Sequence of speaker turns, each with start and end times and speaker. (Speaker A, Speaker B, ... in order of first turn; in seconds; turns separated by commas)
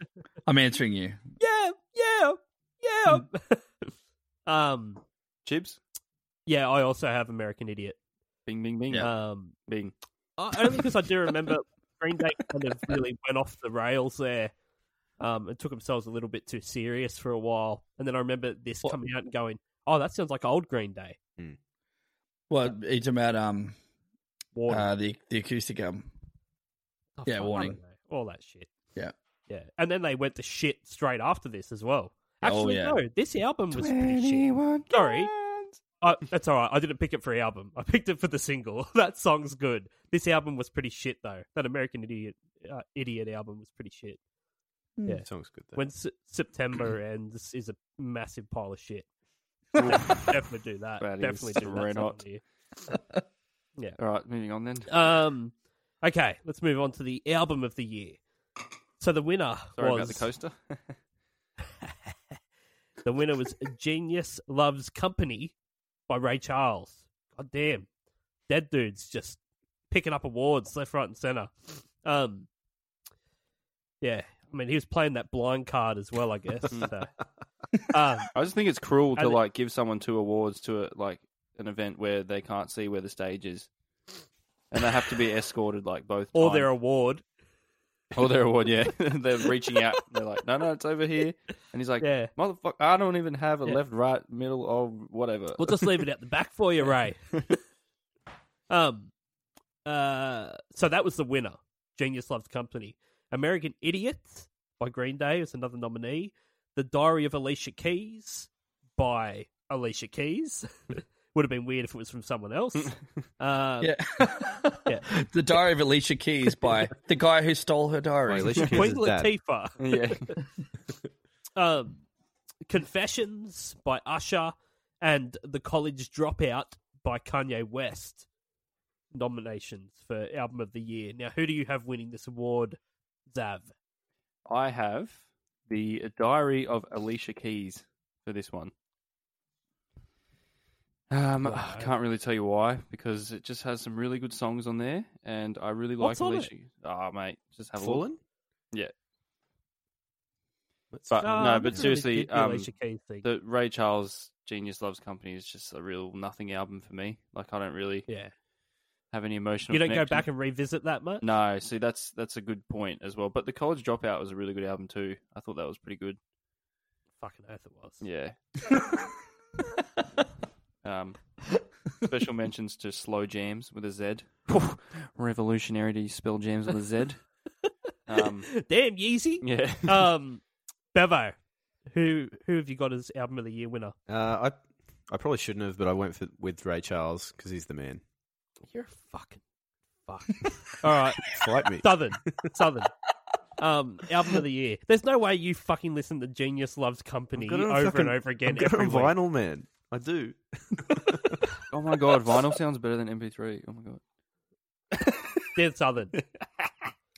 Speaker A: 0.5-1.3, Speaker B: 1.4-3.9, Speaker B: 4.5-5.0, Speaker C: 5.5-5.8, Speaker B: 6.5-8.0, Speaker C: 8.5-9.1, Speaker B: 9.0-9.6, Speaker C: 9.7-9.9, Speaker B: 10.4-14.5, Speaker B: 15.2-21.2, Speaker A: 22.5-23.8, Speaker B: 24.6-24.9, Speaker A: 24.7-26.1, Speaker B: 27.2-28.7, Speaker A: 27.3-27.8, Speaker B: 29.5-35.3, Speaker A: 32.4-33.0, Speaker C: 33.7-35.8, Speaker B: 36.0-44.2, Speaker B: 45.0-49.1, Speaker D: 45.2-45.9, Speaker C: 49.8-50.3, Speaker B: 49.8-52.4, Speaker C: 51.0-52.2, Speaker C: 54.0-54.9, Speaker B: 54.9-58.2, Speaker B: 59.0-60.3, Speaker C: 59.8-61.0, Speaker B: 63.0-65.5, Speaker B: 66.1-67.9, Speaker B: 68.5-69.4, Speaker B: 69.9-72.5, Speaker B: 74.0-77.1, Speaker B: 77.9-78.3, Speaker C: 78.3-83.7, Speaker B: 79.2-79.4, Speaker C: 84.7-86.7, Speaker B: 86.3-87.2, Speaker C: 88.1-96.0, Speaker B: 92.0-92.3, Speaker B: 95.6-97.3, Speaker B: 98.7-99.1, Speaker B: 99.8-113.9, Speaker A: 113.8-118.7, Speaker D: 118.3-119.3, Speaker B: 118.7-120.3, Speaker C: 119.8-120.3, Speaker B: 121.6-122.0, Speaker B: 122.7-128.2, Speaker B: 129.1-132.8, Speaker B: 133.3-133.7, Speaker C: 134.5-138.7, Speaker C: 141.1-148.1, Speaker B: 141.4-141.9, Speaker B: 146.0-146.5, Speaker D: 147.8-148.2, Speaker D: 150.9-151.9, Speaker C: 151.1-152.7, Speaker B: 151.2-153.3, Speaker C: 153.2-158.1, Speaker C: 159.1-160.3, Speaker B: 159.7-161.2, Speaker C: 161.2-166.2, Speaker B: 167.2-168.0, Speaker C: 168.0-168.3, Speaker C: 170.8-171.2, Speaker C: 172.0-177.2, Speaker C: 178.1-178.6, Speaker B: 178.5-180.4, Speaker C: 179.4-180.1, Speaker B: 180.9-181.4, Speaker B: 181.9-183.9, Speaker D: 184.1-184.6, Speaker D: 185.1-188.0, Speaker B: 188.7-189.4, Speaker B: 190.1-191.3, Speaker D: 191.2-192.5, Speaker B: 191.8-192.9, Speaker B: 193.6-199.2, Speaker D: 197.3-201.4, Speaker C: 201.7-204.0, Speaker C: 205.0-205.4, Speaker B: 205.6-206.1